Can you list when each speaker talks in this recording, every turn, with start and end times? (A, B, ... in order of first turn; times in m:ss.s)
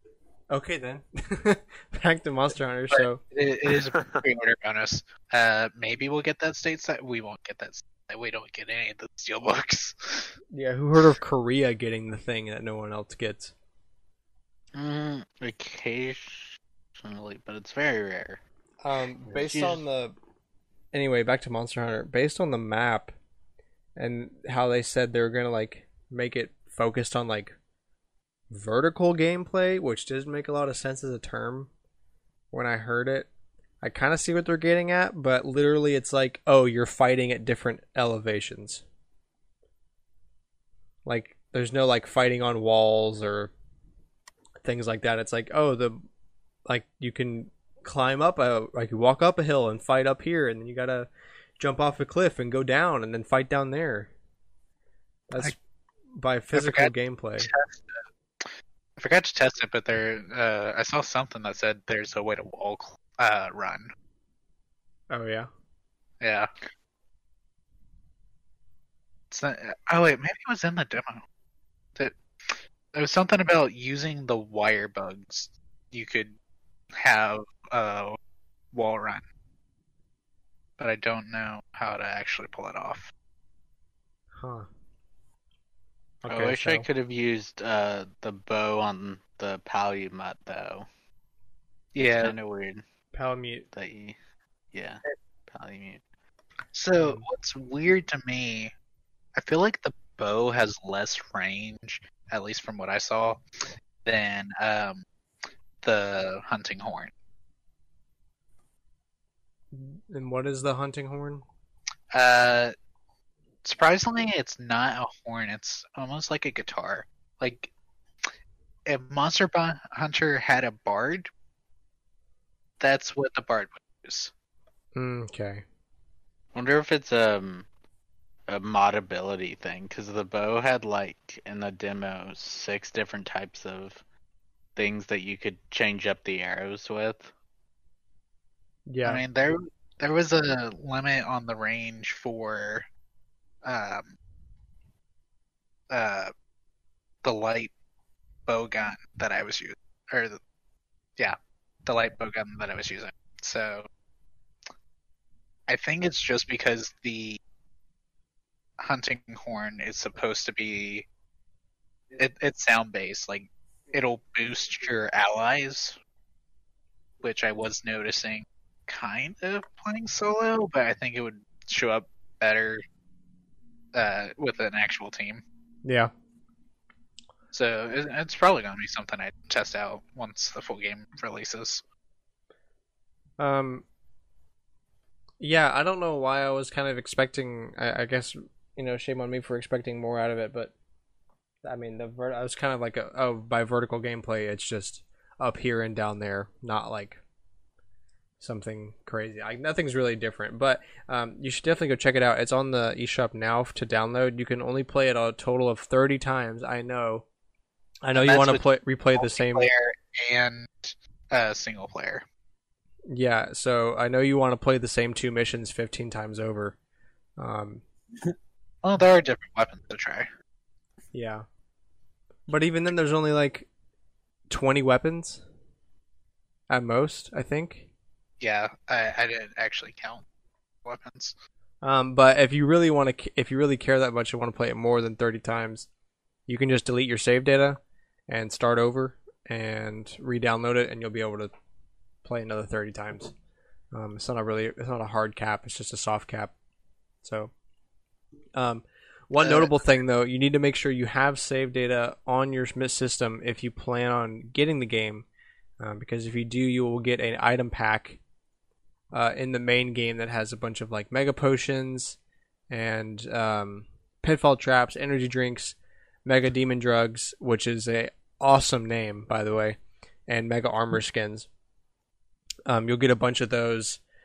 0:00.5-0:03.2 A
0:02.9-0:10.3 B
0:10.5-0:13.5 A
0:14.7-0:18.4 C
0:18.8-0:20.1 A
0:19.3-0:19.8 C
0:20.9-0:23.1 A
0:24.0-0:27.6 A
0:28.5-0:31.7 A
0:32.5-0:33.3 A
0:33.8-0:38.8 A
0:41.0-0:43.5 A
0:44.6-0:46.0 A
0:46.6-0:54.1 A
0:55.3-0:55.6 A
0:56.1-0:57.5 A
0:56.5-0:58.5 B
0:59.0-1:03.9 B
1:05.1-1:05.5 A
1:06.2-1:06.5 B
1:09.3-1:11.2 B
1:12.0-1:16.4 B
1:16.9-1:18.2 B
1:18.7-1:19.2 B
1:20.8-1:23.1 B
1:24.4-1:24.7 A
1:26.2-1:26.9 A
1:26.3-1:30.8 C
1:31.9-1:32.4 B
1:32.2-1:32.8 C
1:33.1-1:33.7 A
1:33.7-1:34.2 C
1:34.7-1:36.0 C
1:36.7-1:38.7 B
1:37.0-1:37.2 A
1:39.3-1:43.4 B
1:44.0-1:45.0 B
1:45.8-1:47.1 B
1:49.7-1:51.4 A
1:52.1-1:52.7 B
1:53.6-1:57.7 B
1:58.9-2:01.3 B
2:02.8-2:04.3 B
2:04.9-2:05.6 A
2:06.5-2:07.7 C
2:08.5-2:14.0 C
2:14.8-2:17.3 C
2:18.9-2:19.2 A
2:19.0-2:22.8 B
2:23.6-2:24.1 B
2:25.9-2:26.3 B
2:27.2-2:27.7 B
2:28.5-2:30.4 B
2:31.2-2:33.9 B
2:35.7-2:37.4 B
2:38.8-2:41.0 B
2:42.2-2:46.0 B
2:47.2-2:52.8 B
2:53.9-2:55.4 B
2:55.8-2:56.1 A
2:57.5-3:01.8 B
3:03.4-3:03.8 A
3:05.4-3:10.7 A
3:11.6-3:17.2 A
3:18.4-3:27.2 A
3:28.0-3:29.7 A
3:28.1-3:32.2 B
3:33.1-3:36.8 A
3:37.4-3:37.8 A
3:38.8-3:40.3 B
3:41.1-3:41.4 A
3:42.5-3:43.7 A
3:44.5-3:45.4 A
3:46.7-3:47.9 A
3:48.4-3:50.2 B
3:50.8-3:51.3 B
3:51.8-3:55.9 A
3:56.5-4:01.5 A
4:02.2-4:03.3 A
4:03.9-4:06.5 A
4:07.2-4:07.5 A
4:08.5-4:15.2 A
4:09.4-4:09.7 B
4:15.8-4:18.2 A
4:19.1-4:22.2 A
4:22.7-4:31.5 A
4:32.7-4:34.0 A